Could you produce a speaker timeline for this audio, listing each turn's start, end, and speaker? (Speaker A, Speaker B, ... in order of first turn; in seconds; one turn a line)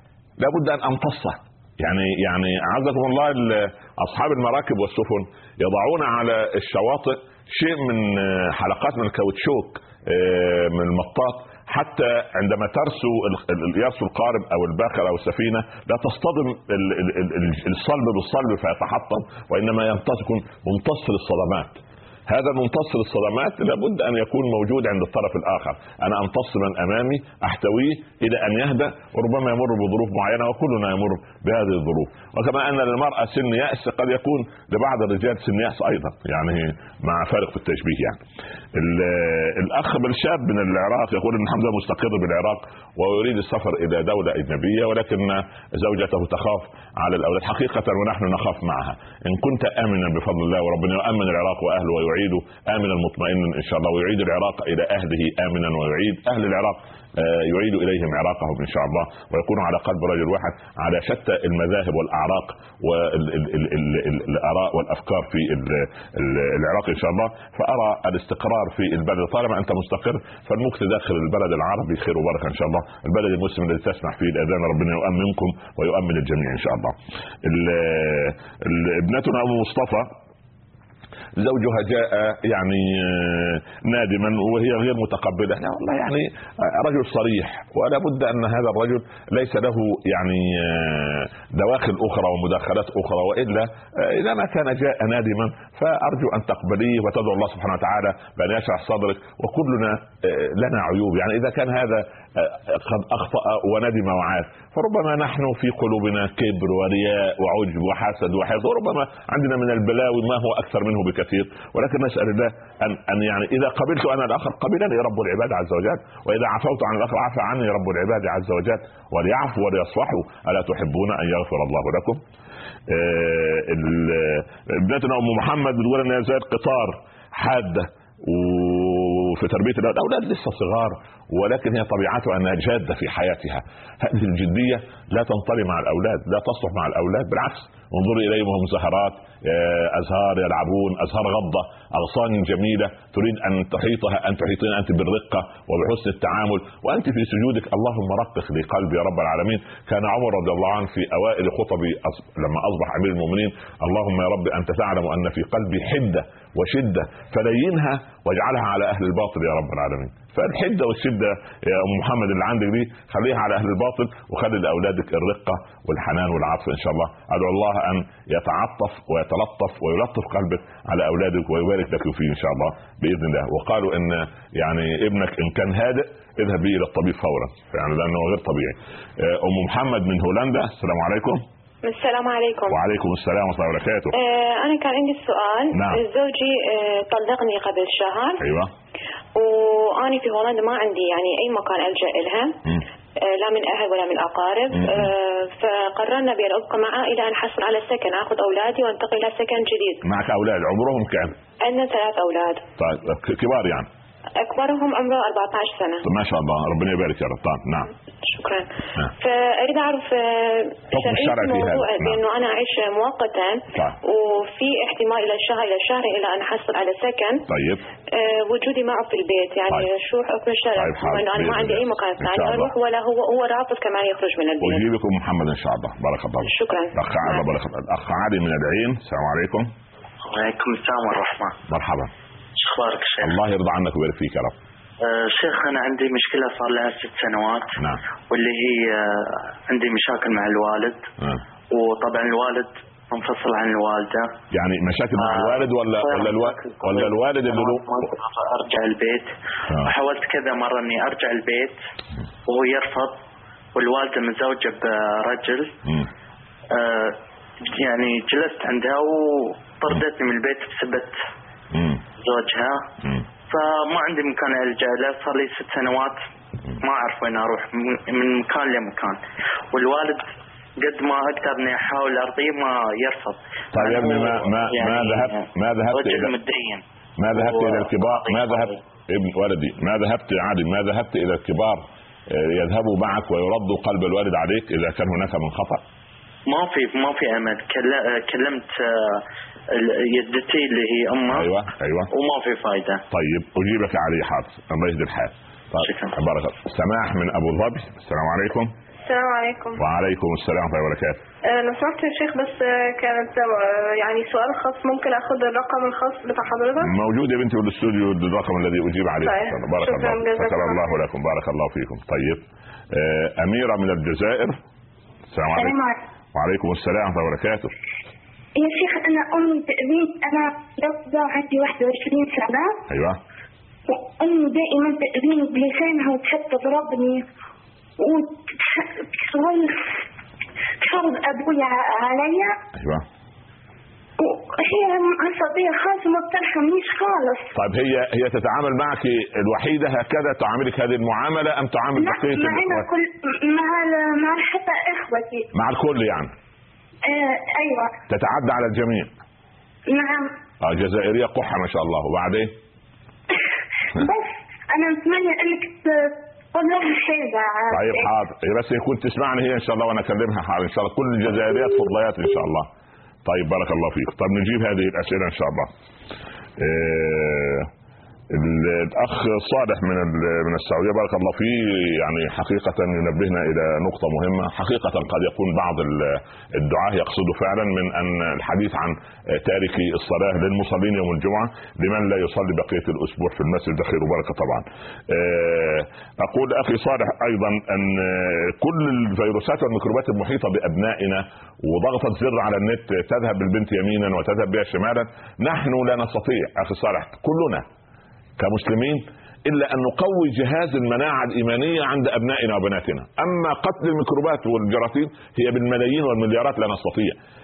Speaker A: 0.4-38.2
Speaker A: 38.7-80.1
Speaker A: 81.4-122.2
Speaker A: 122.9-181.4
Speaker B: 181.8-182.8
Speaker A: 182.7-184.2
Speaker B: 184.1-188.4
Speaker A: 185.7-186.0
Speaker A: 188.4-188.7
Speaker B: 189.3-192.6
Speaker B: 193.2-200.0
Speaker A: 194.7-195.1
Speaker A: 200.0-201.3
Speaker B: 201.6-202.6
Speaker A: 202.8-203.9
Speaker B: 204.4-206.0
Speaker A: 206.0-207.9
Speaker B: 208.2-208.7
Speaker B: 209.2-217.4
Speaker A: 210.9-212.2
Speaker A: 217.5-217.8
Speaker B: 218.1-224.8
Speaker A: 220.8-222.7
Speaker A: 224.6-229.7
Speaker B: 226.4-227.4
Speaker C: 230.2-231.6
Speaker A: 231.7-232.1
Speaker C: 232.6-233.3
Speaker A: 233.2-234.5
Speaker C: 235.0-237.8
Speaker C: 238.3-241.0
Speaker C: 241.7-244.3
Speaker A: 244.5-247.9
Speaker C: 245.2-249.3
Speaker C: 249.8-251.8
Speaker C: 252.5-253.2
Speaker C: 253.7-255.7
Speaker C: 256.7-261.2
Speaker A: 261.7-262.0
Speaker C: 262.2-262.9
Speaker C: 263.5-266.2
Speaker C: 266.8-269.2
Speaker C: 269.7-270.2
Speaker C: 270.8-276.8
Speaker A: 273.7-276.3
Speaker A: 277.2-285.8
Speaker C: 277.3-278.8
Speaker C: 286.5-291.5
Speaker A: 291.3-292.1
Speaker C: 292.1-293.0
Speaker A: 293.1-298.7
Speaker C: 295.8-296.1
Speaker D: 299.0-299.8
Speaker A: 299.8-301.2
Speaker D: 301.5-306.9
Speaker A: 306.8-314.6
Speaker D: 309.2-310.9
Speaker A: 315.3-315.8
Speaker E: 315.6-315.9
Speaker A: 316.3-317.7
Speaker E: 318.6-322.8
Speaker A: 322.9-323.2
Speaker E: 323.9-327.2
Speaker E: 328.0-329.9
Speaker E: 330.8-332.6
Speaker A: 332.8-333.0
Speaker E: 334.2-337.5
Speaker A: 337.5-342.9
Speaker E: 342.0-345.5
Speaker A: 345.5-346.3
Speaker E: 347.1-347.9
Speaker A: 348.1-349.1
Speaker E: 349.9-350.3
Speaker A: 350.6-352.5
Speaker E: 353.9-358.1
Speaker A: 357.7-362.7
Speaker A: 363.2-365.7
Speaker A: 366.6-367.7
Speaker A: 368.3-397.6
Speaker A: 398.4-407.1